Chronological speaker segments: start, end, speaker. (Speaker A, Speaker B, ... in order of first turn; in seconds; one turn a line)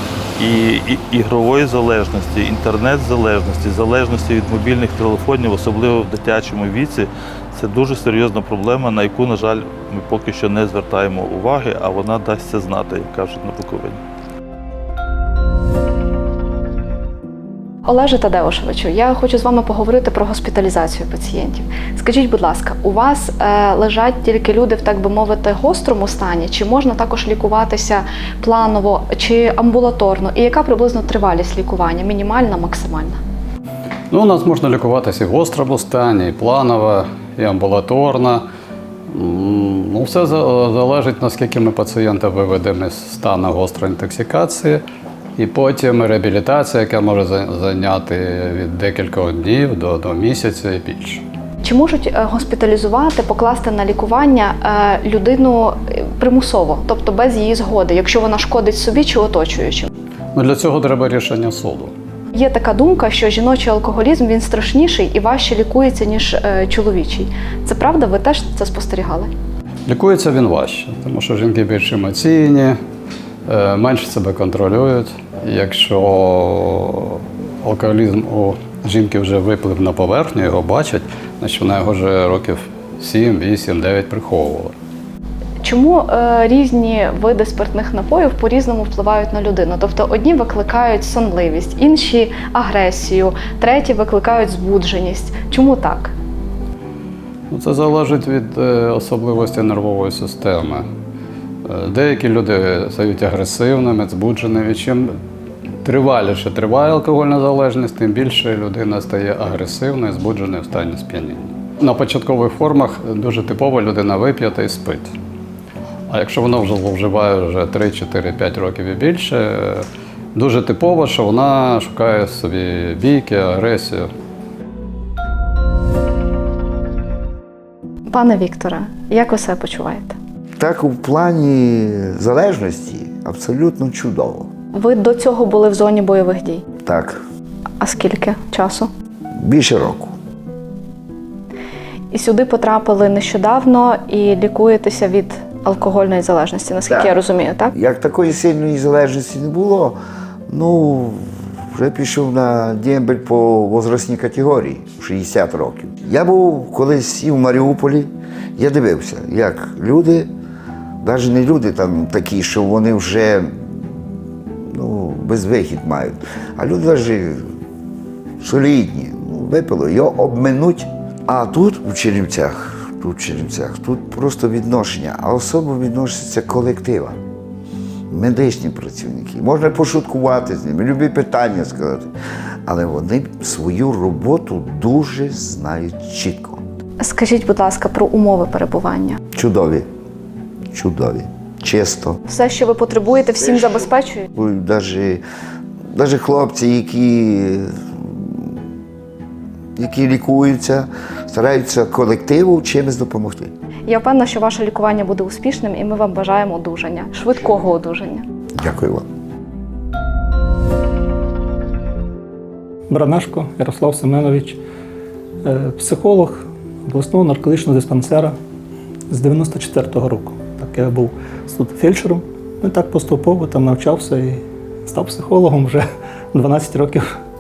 Speaker A: 0.4-14.0
Speaker B: 17.8-33.2
Speaker C: 34.1-38.5
Speaker C: 39.1-44.8
Speaker C: 45.4-51.2
Speaker B: 51.6-59.9
Speaker C: 60.3-61.9
Speaker B: 62.3-69.3
Speaker C: 69.9-72.8
Speaker C: 73.5-84.7
Speaker B: 85.6-96.1
Speaker C: 97.5-100.9
Speaker C: 101.6-105.2
Speaker C: 105.8-115.1
Speaker C: 116.1-124.1
Speaker B: 128.1-130.2
Speaker D: 130.6-134.5
Speaker B: 134.7-136.6
Speaker D: 136.8-137.2
Speaker B: 137.8-138.9
Speaker D: 139.4-140.2
Speaker B: 142.1-147.7
Speaker D: 146.9-147.2
Speaker D: 147.7-160.3
Speaker D: 161.0-163.9
Speaker D: 164.7-167.5
Speaker D: 168.4-177.2
Speaker D: 178.1-182.1
Speaker D: 182.7-186.6
Speaker B: 187.0-189.2
Speaker D: 189.3-189.9
Speaker D: 190.7-192.2
Speaker B: 192.3-194.3
Speaker D: 194.3-195.2
Speaker D: 195.9-198.6
Speaker D: 199.8-203.5
Speaker B: 203.9-208.2
Speaker D: 208.5-209.0
Speaker E: 212.9-214.4
Speaker E: 215.4-216.3
Speaker E: 216.9-218.3
Speaker E: 219.1-220.9
Speaker C: 219.7-221.1
Speaker E: 221.6-222.0
Speaker E: 222.6-224.0
Speaker E: 224.9-225.7
Speaker E: 226.3-226.8